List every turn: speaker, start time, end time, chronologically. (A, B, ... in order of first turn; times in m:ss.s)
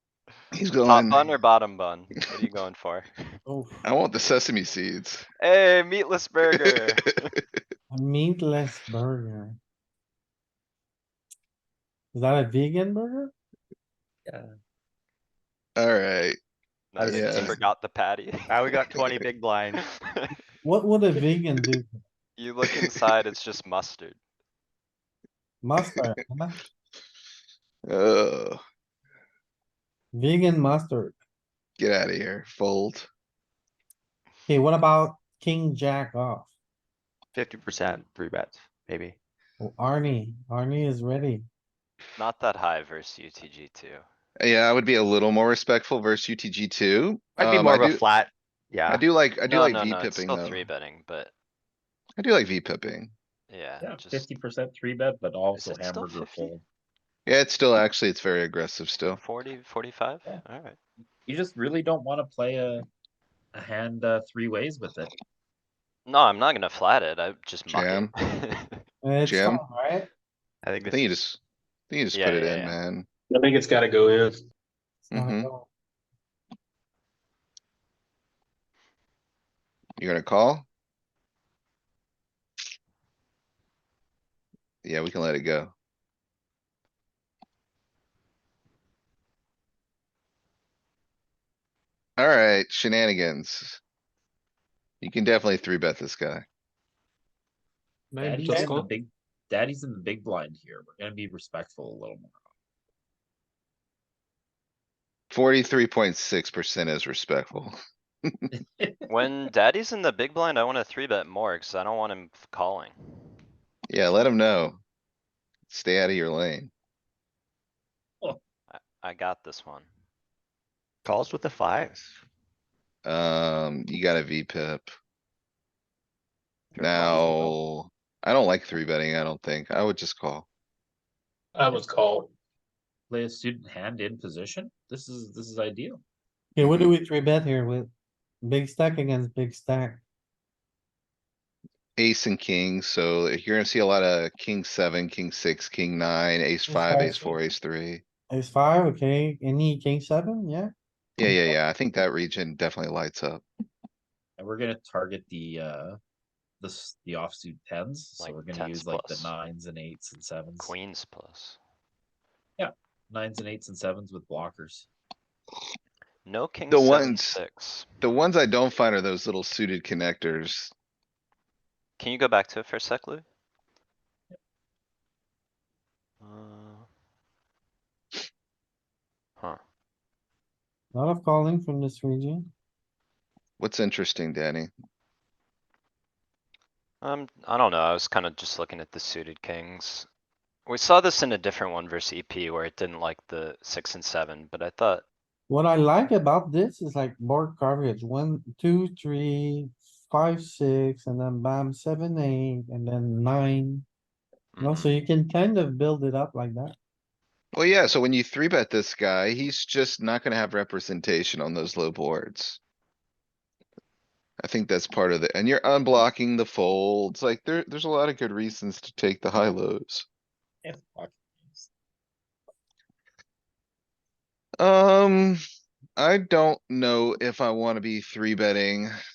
0:00.5-0:01.3 A
0:00.8-0:03.1 B
0:03.5-0:03.8 C
0:03.8-0:05.2 A
0:05.4-0:07.3 B
0:07.9-0:09.6 C
0:12.1-0:13.3 C
0:15.8-0:16.4 A
0:16.9-0:18.6 B
0:17.0-0:17.6 A
0:17.1-0:17.6 D
0:18.5-0:19.8 D
0:20.1-0:20.3 B
0:20.6-0:22.0 C
0:22.4-0:24.2 B
0:25.6-0:26.6 C
0:27.9-0:28.6 A
0:30.1-0:31.2 C
0:31.8-0:33.1 A
0:34.5-0:36.5 C
0:37.3-0:39.2 D
0:39.6-0:41.4 C
0:42.2-0:44.0 B
0:44.4-0:48.0 A
0:47.4-0:49.0 D
0:48.9-0:50.6 A
0:49.5-0:51.3 B
0:52.2-0:53.1 A
0:53.5-0:54.3 B
0:53.8-0:56.6 E
0:55.5-0:56.5 B
0:57.2-0:59.2 A
0:59.1-1:00.8 B
1:01.2-1:02.9 E
1:03.5-1:05.1 E
1:06.0-1:08.8 B
1:07.7-1:08.1 A
1:09.0-1:10.1 C
1:09.2-1:09.6 A
1:10.6-1:11.0 D
1:10.8-1:11.4 A
1:11.9-1:13.1 A
1:12.1-1:12.8 B
1:13.3-1:14.4 F
1:15.1-1:15.5 A
1:15.1-1:15.7 C
1:20.0-1:20.7 A
1:24.8-1:25.7 A
1:32.2-1:33.8 A
1:35.0-1:36.4 A
1:38.1-1:38.9 F
1:38.2-1:42.4 E
1:38.5-1:38.7 C
1:45.3-1:48.5 A
1:48.5-1:49.1 E
1:49.1-1:53.4 B
1:53.9-1:54.8 A
1:55.7-1:56.7 A
1:58.7-1:59.9 B
2:01.0-2:02.2 D
2:03.0-2:04.9 A
2:06.8-2:10.5 A
2:06.8-2:07.5 B
2:07.0-2:07.2 D
2:11.6-2:12.3 F
2:13.1-2:16.0 E
2:16.6-2:17.9 C
2:16.6-2:16.9 A
2:18.4-2:20.0 C
2:22.0-2:28.0 A
2:26.7-2:27.4 C
2:28.3-2:31.5 C
2:31.2-2:33.4 A
2:34.4-2:36.0 E
2:36.6-2:40.7 E
2:38.2-2:39.3 B
2:40.6-2:41.6 B
2:42.6-2:44.9 E
2:46.2-2:48.0 B
2:46.7-2:47.4 A
2:48.0-2:50.7 A
2:52.0-2:53.2 B
2:56.2-2:56.8 B
3:00.9-3:02.5 C
3:03.6-3:04.7 A
3:07.0-3:10.1 B
3:10.6-3:15.0 B
3:15.5-3:23.8 C
3:24.6-3:24.9 B
3:24.6-3:26.8 C
3:27.5-3:32.6 A
3:34.4-3:40.0 A
3:40.6-3:41.7 E
3:44.6-3:45.4 A
3:46.0-3:48.9 A